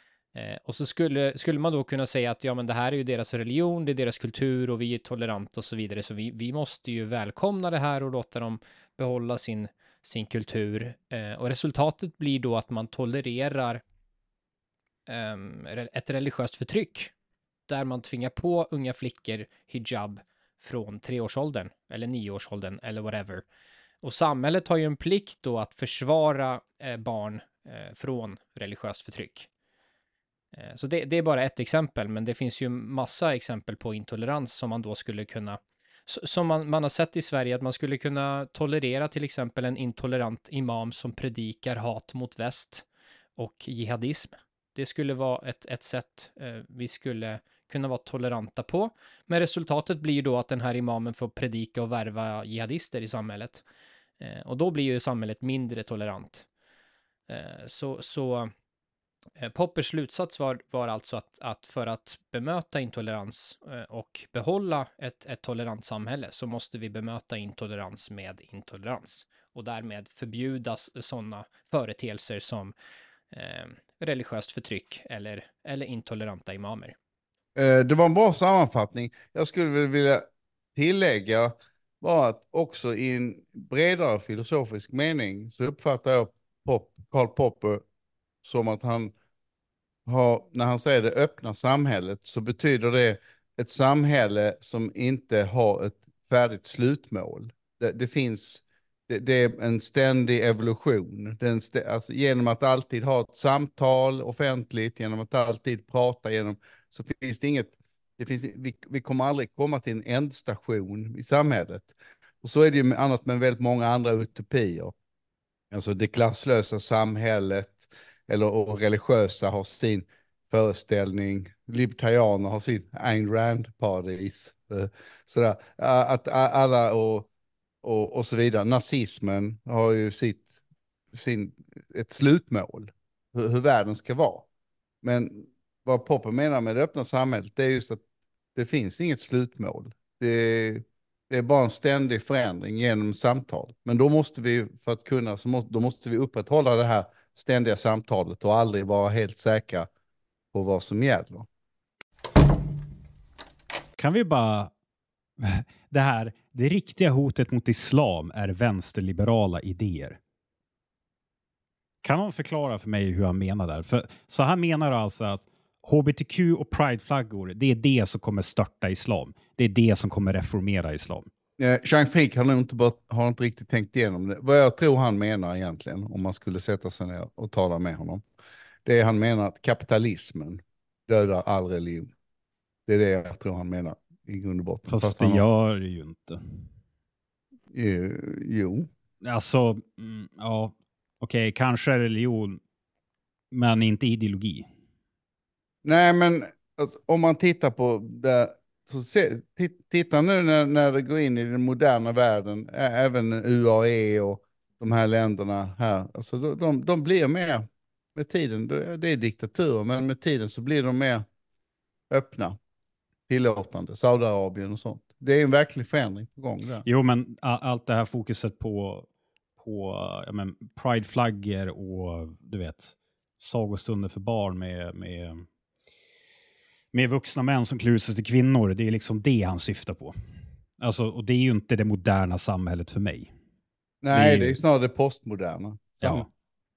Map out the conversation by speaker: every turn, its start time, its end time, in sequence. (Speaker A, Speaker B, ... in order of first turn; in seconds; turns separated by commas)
Speaker A: 0.3-13.8, Speaker A: 15.1-17.1, Speaker A: 17.7-23.4, Speaker A: 24.0-29.5, Speaker A: 30.5-42.8, Speaker A: 43.4-53.6, Speaker A: 54.2-56.5, Speaker A: 57.3-58.5, Speaker A: 59.4-72.7, Speaker A: 73.3-76.9, Speaker B: 77.5-87.8, Speaker B: 88.4-89.1, Speaker B: 90.0-114.9, Speaker B: 115.7-127.3, Speaker B: 127.8-130.5, Speaker B: 131.1-134.4, Speaker B: 135.0-138.0, Speaker B: 138.5-149.9, Speaker B: 150.5-151.5, Speaker C: 154.0-154.7, Speaker C: 155.4-160.2, Speaker C: 162.0-171.3, Speaker B: 171.6-178.2, Speaker B: 178.8-182.1, Speaker B: 182.9-185.4, Speaker C: 184.9-186.7, Speaker B: 187.7-188.9, Speaker C: 189.2-192.6, Speaker C: 193.5-194.7, Speaker B: 195.8-211.2, Speaker B: 212.1-212.6, Speaker B: 213.3-216.8, Speaker C: 216.8-219.1, Speaker C: 219.6-225.4, Speaker C: 226.9-230.1, Speaker C: 230.8-233.3, Speaker B: 234.0-236.2, Speaker C: 234.1-234.6, Speaker C: 236.0-236.3